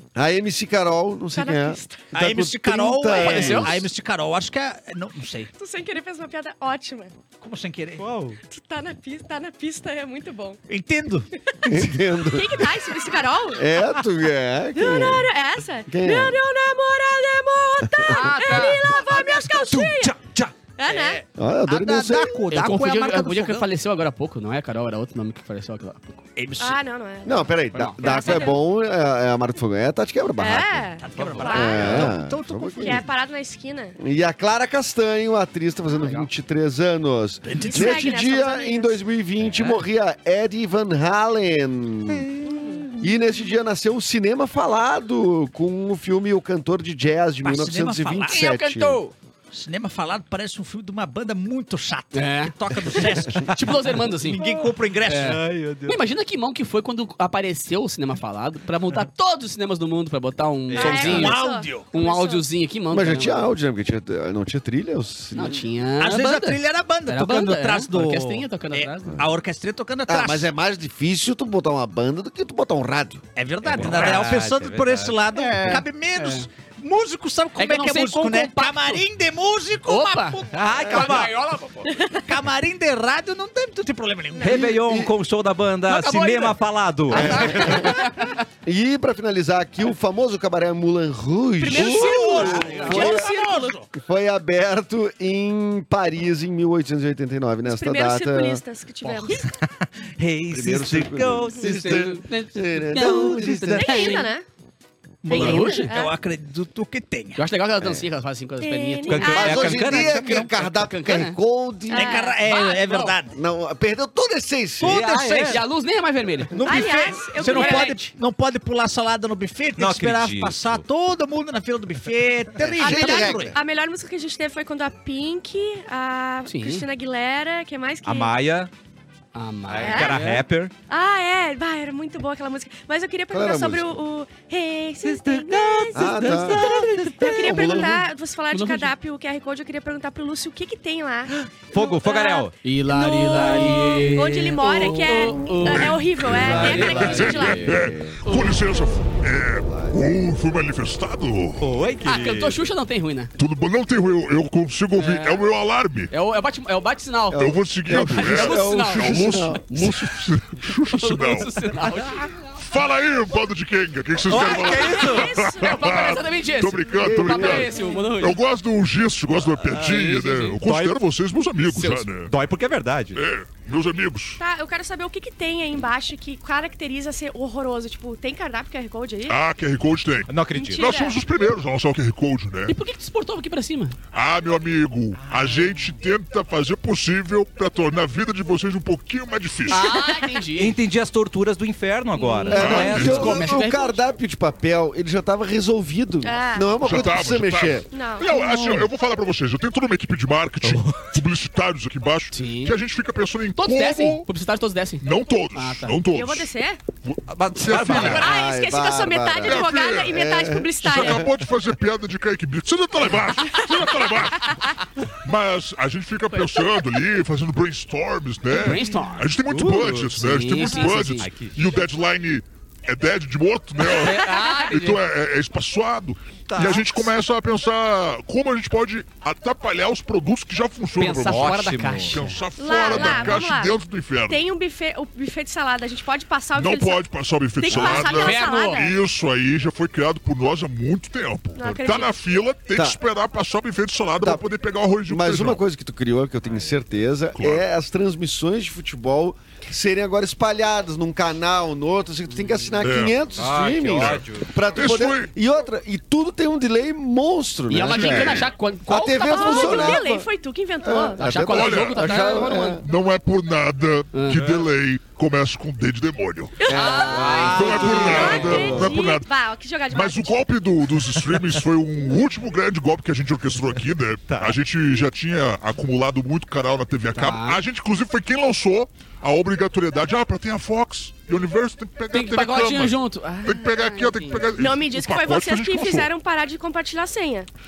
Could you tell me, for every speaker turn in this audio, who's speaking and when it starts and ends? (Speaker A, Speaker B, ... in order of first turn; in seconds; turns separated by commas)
Speaker A: 0.1-3.8, Speaker B: 1.3-2.0, Speaker C: 2.1-5.5, Speaker D: 3.1-3.8, Speaker B: 5.6-7.2, Speaker C: 7.4-8.0, Speaker E: 8.0-8.4, Speaker B: 8.5-10.6, Speaker C: 10.7-11.2, Speaker A: 11.7-12.7, Speaker B: 12.2-13.6, Speaker A: 13.5-15.3, Speaker B: 14.7-20.1, Speaker A: 15.9-16.4, Speaker A: 17.8-18.1, Speaker D: 18.1-18.8, Speaker C: 18.5-23.7, Speaker B: 20.8-21.2, Speaker A: 21.4-22.4, Speaker D: 22.5-26.2, Speaker C: 26.4-26.8, Speaker B: 26.6-28.6, Speaker A: 27.2-30.9, Speaker D: 27.7-28.1, Speaker B: 30.4-32.1, Speaker C: 31.0-33.0, Speaker A: 31.5-33.0, Speaker B: 32.8-34.0, Speaker A: 34.0-42.3, Speaker C: 37.4-38.0, Speaker B: 37.6-39.0, Speaker E: 39.4-39.8, Speaker B: 42.5-42.8, Speaker A: 43.0-49.0, Speaker C: 47.4-48.5, Speaker D: 48.3-49.1, Speaker C: 49.5-55.5, Speaker D: 52.1-54.4, Speaker E: 54.4-56.0, Speaker D: 55.0-61.4, Speaker E: 60.7-61.4, Speaker B: 60.7-62.4, Speaker C: 61.0-61.9, Speaker D: 61.9-63.5, Speaker A: 62.9-65.7, Speaker D: 65.3-69.2, Speaker C: 66.0-70.5, Speaker A: 70.1-73.2, Speaker C: 73.3-81.3, Speaker E: 73.6-75.2, Speaker D: 73.9-74.2, Speaker D: 75.3-76.5, Speaker D: 77.5-79.0, Speaker D: 79.8-82.0, Speaker E: 80.5-81.3, Speaker C: 82.2-84.7, Speaker B: 84.3-84.6, Speaker E: 84.4-88.0, Speaker A: 84.5-85.1, Speaker D: 85.9-86.6, Speaker D: 87.1-88.4, Speaker A: 87.1-88.0, Speaker A: 88.6-93.3, Speaker B: 91.6-93.8, Speaker C: 91.7-93.9, Speaker D: 92.4-93.1, Speaker A: 93.9-98.6, Speaker B: 97.6-99.5, Speaker E: 99.3-102.1, Speaker A: 100.5-104.2, Speaker D: 101.6-104.2, Speaker E: 103.0-104.2, Speaker B: 103.8-104.4, Speaker C: 105.2-107.4, Speaker B: 105.3-106.2, Speaker D: 105.3-105.9, Speaker D: 107.3-111.4, Speaker A: 107.8-108.0, Speaker B: 108.6-109.7, Speaker E: 109.1-110.5, Speaker A: 109.2-112.2, Speaker B: 111.9-112.5, Speaker C: 111.9-113.3, Speaker D: 112.4-113.2, Speaker A: 113.3-115.0, Speaker C: 114.8-115.6, Speaker E: 114.9-115.6, Speaker D: 115.1-116.5, Speaker C: 116.5-123.5, Speaker B: 116.6-118.0, Speaker D: 117.5-117.9, Speaker E: 119.8-120.8, Speaker A: 122.6-123.5, Speaker B: 122.8-128.3, Speaker D: 126.5-126.8, Speaker E: 128.0-128.7, Speaker D: 129.3-130.4, Speaker E: 129.7-130.7, Speaker B: 129.8-130.2, Speaker B: 130.9-147.8, Speaker A: 133.3-133.9, Speaker E: 135.0-137.3, Speaker A: 135.9-138.1, Speaker D: 138.5-138.9, Speaker E: 141.4-142.5, Speaker D: 142.6-148.6, Speaker F: 145.7-151.7, Speaker A: 146.3-148.2, Speaker E: 146.5-147.2, Speaker A: 149.7-150.0, Speaker E: 151.6-152.6, Speaker D: 152.0-153.3, Speaker F: 153.4-156.1, Speaker D: 154.9-155.4, Speaker D: 156.1-160.1, Speaker A: 157.3-159.8, Speaker F: 157.3-161.6, Speaker D: 160.9-162.3, Speaker F: 162.5-172.3, Speaker E: 164.3-165.4, Speaker B: 164.3-166.2, Speaker D: 165.6-168.4, Speaker A: 167.0-167.7, Speaker E: 169.7-170.1, Speaker D: 169.8-170.6, Speaker E: 170.6-171.0, Speaker D: 171.7-172.1, Speaker E: 172.3-173.2, Speaker F: 173.1-174.4, Speaker B: 174.4-179.4, Speaker F: 179.3-182.8, Speaker E: 180.3-181.0, Speaker B: 180.5-181.2, Speaker D: 182.7-184.0, Speaker F: 184.1-189.9, Speaker E: 185.2-185.8, Speaker D: 189.7-190.8, Speaker E: 190.5-193.5, Speaker B: 192.1-192.6, Speaker A: 192.5-197.9, Speaker F: 192.5-193.3, Speaker D: 192.5-194.0, Speaker B: 196.2-197.0, Speaker F: 196.8-204.3, Speaker B: 197.9-198.3, Speaker D: 198.3-198.8, Speaker E: 200.6-201.1, Speaker D: 202.3-202.7, Speaker D: 203.5-206.0, Speaker F: 205.0-206.5, Speaker B: 206.1-206.8, Speaker F: 207.1-208.3, Speaker E: 207.3-208.2, Speaker A: 207.9-211.3, Speaker B: 207.9-211.2, Speaker F: 209.4-210.2, Speaker F: 210.8-234.4, Speaker D: 218.5-219.3, Speaker E: 219.5-220.2, Speaker D: 220.1-221.3, Speaker E: 221.2-221.8, Speaker D: 223.8-225.0, Speaker B: 224.2-224.6, Speaker E: 226.5-227.1, Speaker D: 230.9-232.3, Speaker E: 231.2-232.3, Speaker B: 232.6-239.0, Speaker D: 233.0-233.2, Speaker F: 236.5-245.6, Speaker D: 237.7-238.9, Speaker B: 241.5-242.1, Speaker A: 245.1-260.3, Speaker F: 247.3-247.6, Speaker F: 252.8-253.2, Speaker E: 253.3-254.5, Speaker F: 253.9-255.3, Speaker D: 257.7-260.0, Speaker F: 257.9-258.4, Speaker B: 259.0-261.4, Speaker A: 260.8-262.9, Speaker D: 261.2-262.8, Speaker F: 261.4-266.7, Speaker D: 264.1-264.4, Speaker E: 264.3-264.6, Speaker B: 266.6-270.4, Speaker D: 266.7-268.4, Speaker A: 266.7-268.9, Speaker E: 266.9-268.9, Speaker F: 267.4-269.3, Speaker F: 269.9-286.1, Speaker E: 274.3-274.6, Speaker D: 277.1-277.6, Speaker D: 282.1-284.5, Speaker B: 284.6-287.5